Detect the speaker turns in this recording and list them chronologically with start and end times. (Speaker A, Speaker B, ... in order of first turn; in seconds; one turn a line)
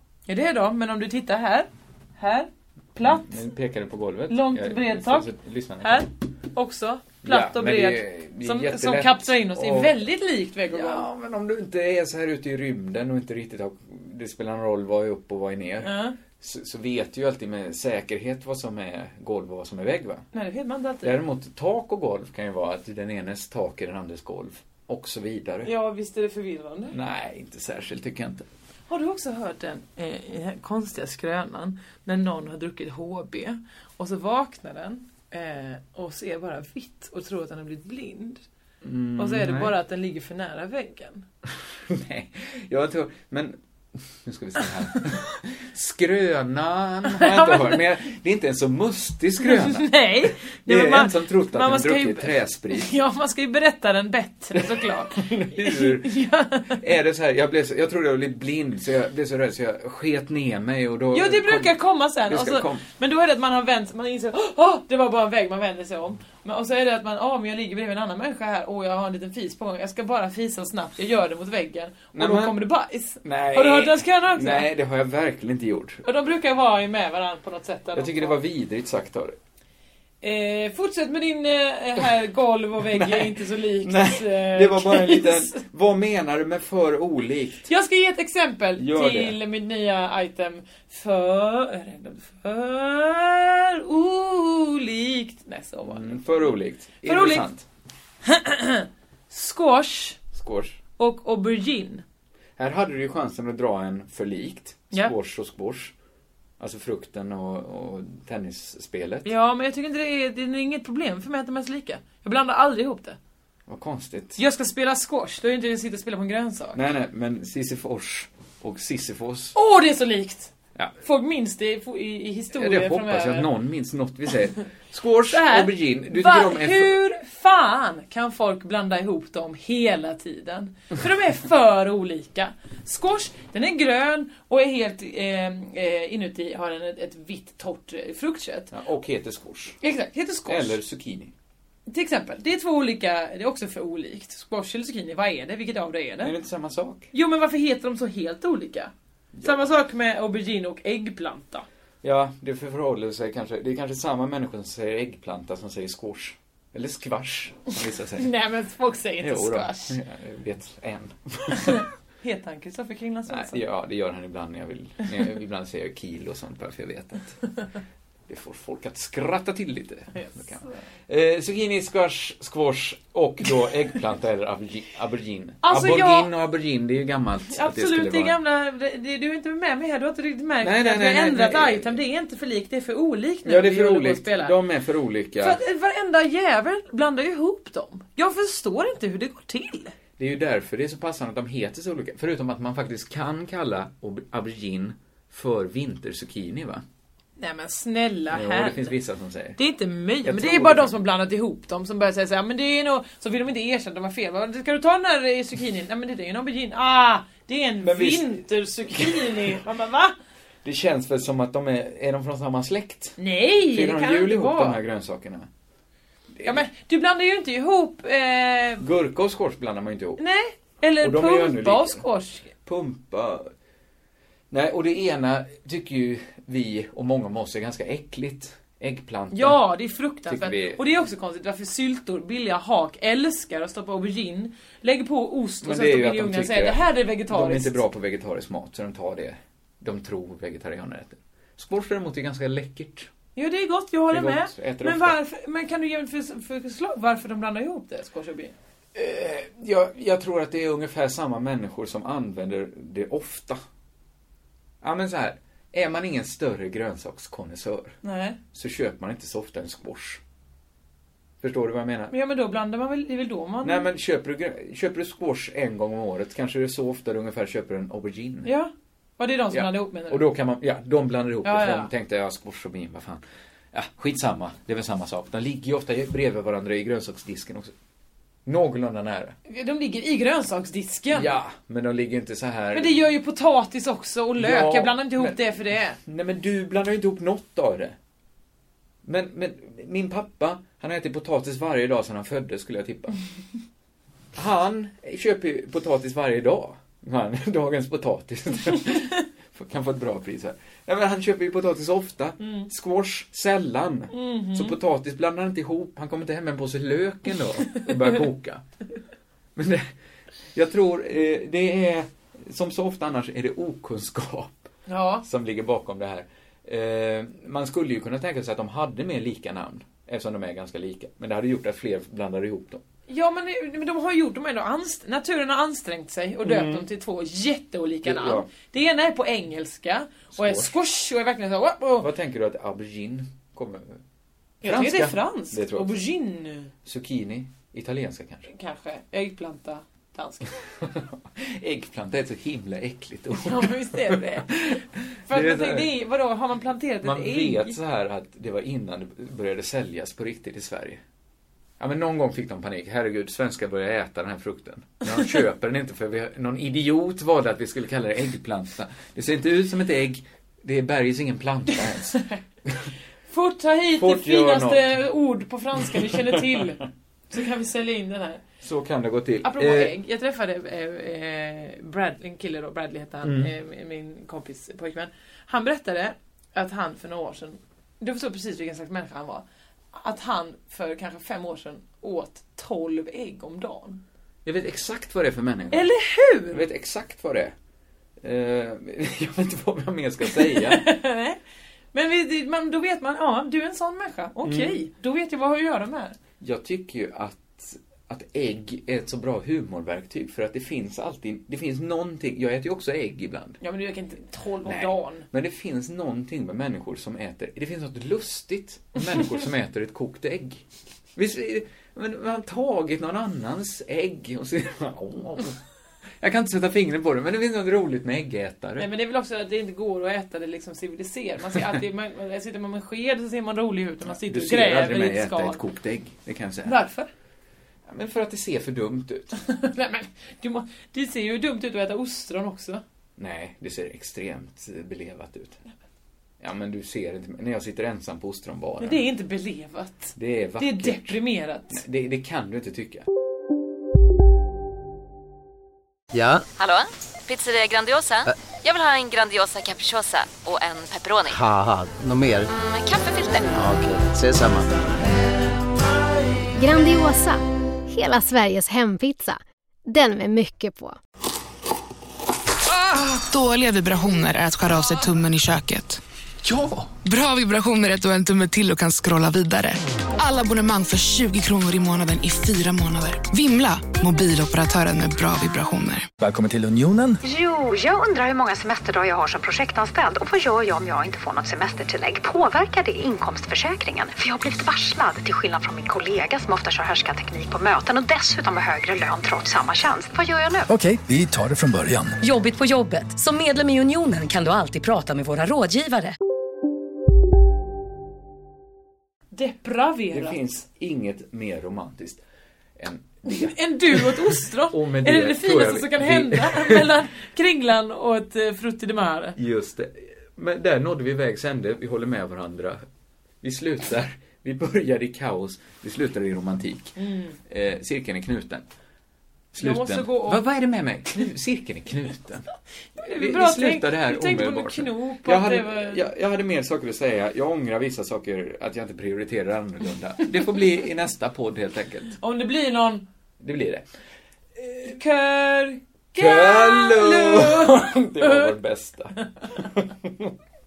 Speaker A: 0.3-3.4
Speaker B: 3.0-6.1
Speaker A: 4.3-5.3
Speaker A: 5.8-11.1
Speaker B: 7.2-10.0
Speaker B: 10.7-20.2
Speaker A: 15.8-16.2
Speaker A: 20.3-21.1
Speaker B: 21.0-25.7
Speaker A: 25.6-26.9
Speaker B: 26.9-28.4
Speaker A: 28.9-38.4
Speaker B: 38.8-39.8
Speaker A: 39.2-41.2
Speaker B: 41.9-52.9
Speaker A: 47.1-47.8
Speaker A: 49.4-56.8
Speaker B: 54.5-56.2
Speaker B: 56.7-62.9
Speaker A: 61.1-74.7
Speaker B: 72.1-72.6
Speaker B: 73.2-76.0
Speaker A: 76.0-78.4
Speaker B: 77.9-79.3
Speaker A: 80.2-85.6
Speaker B: 82.9-87.6
Speaker A: 87.7-97.5
Speaker B: 88.8-89.4
Speaker B: 95.8-97.6
Speaker A: 98.2-100.2
Speaker B: 100.3-100.8
Speaker A: 101.0-102.0
Speaker B: 102.6-105.9
Speaker B: 106.6-109.3
Speaker A: 109.2-113.2
Speaker B: 113.7-114.4
Speaker A: 114.4-116.8
Speaker B: 116.7-119.5
Speaker A: 119.5-123.5
Speaker B: 122.5-127.0
Speaker A: 125.3-138.7
Speaker B: 138.7-139.8
Speaker A: 139.8-140.8
Speaker B: 140.5-141.3
Speaker A: 141.9-146.3
Speaker B: 146.2-147.1
Speaker A: 147.1-148.9
Speaker B: 149.3-149.6
Speaker A: 149.4-151.7
Speaker B: 152.0-158.3
Speaker A: 158.2-160.0
Speaker B: 159.2-161.8
Speaker A: 161.5-163.6
Speaker B: 163.3-167.4
Speaker B: 168.3-178.4
Speaker A: 170.1-170.8
Speaker A: 175.6-176.3
Speaker A: 177.5-184.6
Speaker B: 180.6-182.0
Speaker B: 183.4-185.6
Speaker A: 185.4-189.9
Speaker B: 190.2-196.8
Speaker A: 197.4-198.9
Speaker B: 198.3-199.6
Speaker A: 199.6-210.1
Speaker B: 200.2-201.0
Speaker B: 207.8-209.6
Speaker B: 210.6-213.2
Speaker A: 213.2-214.8
Speaker B: 213.7-215.5
Speaker B: 216.3-216.6
Speaker A: 216.4-218.8
Speaker B: 218.8-220.2
Speaker A: 220.2-222.5
Speaker B: 221.0-222.0
Speaker B: 222.6-223.5
Speaker B: 224.5-229.6
Speaker A: 229.3-237.8
Speaker B: 230.3-230.8
Speaker B: 235.6-243.1
Speaker A: 243.3-248.5
Speaker B: 244.1-245.2
Speaker B: 248.9-253.6
Speaker B: 254.8-257.9
Speaker A: 258.0-258.4
Speaker B: 258.5-260.2
Speaker B: 261.4-262.1
Speaker A: 262.1-263.9
Speaker B: 263.6-268.5
Speaker A: 268.4-270.2
Speaker B: 269.5-277.7
Speaker A: 271.4-271.9
Speaker B: 278.4-279.4
Speaker A: 279.5-281.4
Speaker B: 281.1-283.0
Speaker A: 282.7-286.0
Speaker B: 284.4-287.9
Speaker B: 289.0-293.2
Speaker B: 294.4-308.6
Speaker A: 302.4-302.7
Speaker A: 304.1-304.8
Speaker B: 309.6-309.9
Speaker B: 310.5-314.6
Speaker A: 314.9-315.2
Speaker B: 315.2-322.8
Speaker A: 323.1-332.1
Speaker B: 326.4-326.9
Speaker B: 328.0-328.5
Speaker B: 330.3-330.7
Speaker B: 332.0-334.0
Speaker B: 334.6-335.9
Speaker A: 334.6-336.7
Speaker B: 336.8-338.5
Speaker A: 338.5-340.5
Speaker B: 340.8-345.9
Speaker A: 343.3-347.8
Speaker B: 347.0-351.0
Speaker B: 351.8-362.9
Speaker A: 363.3-368.4
Speaker B: 363.9-365.0
Speaker B: 365.8-366.6
Speaker B: 368.6-369.9
Speaker A: 369.4-384.0
Speaker B: 373.2-373.5
Speaker B: 384.4-385.9
Speaker A: 385.7-386.6
Speaker B: 386.5-387.5
Speaker B: 388.2-390.9
Speaker A: 390.2-391.4
Speaker A: 391.9-396.1
Speaker B: 394.4-394.8
Speaker B: 396.4-403.6
Speaker A: 403.6-405.2
Speaker B: 404.6-410.6
Speaker B: 411.1-415.6
Speaker B: 416.2-418.9
Speaker A: 418.8-425.6
Speaker B: 424.1-426.8
Speaker A: 426.6-427.1
Speaker B: 427.9-429.4
Speaker A: 429.4-432.8
Speaker B: 433.2-435.6
Speaker B: 436.4-439.1
Speaker A: 438.8-441.8
Speaker B: 440.2-443.1
Speaker C: 446.1-446.4
Speaker D: 446.6-451.4
Speaker C: 451.3-452.5
Speaker D: 452.5-453.6
Speaker C: 453.5-454.7
Speaker E: 456.6-461.0
Speaker F: 463.0-466.0
Speaker F: 467.0-476.1
Speaker G: 476.2-477.2
Speaker H: 477.2-490.7
Speaker G: 490.7-492.2
Speaker I: 492.2-496.1
Speaker A: 499.3-500.4
Speaker B: 500.1-502.2
Speaker B: 502.8-507.0
Speaker A: 503.2-509.4
Speaker B: 509.4-512.8
Speaker B: 513.4-518.6
Speaker A: 517.0-517.4
Speaker B: 519.5-522.5
Speaker A: 519.6-520.4
Speaker A: 523.0-526.0
Speaker B: 523.0-532.2
Speaker A: 532.2-533.0
Speaker B: 533.4-533.9
Speaker A: 534.8-538.5
Speaker B: 536.1-540.3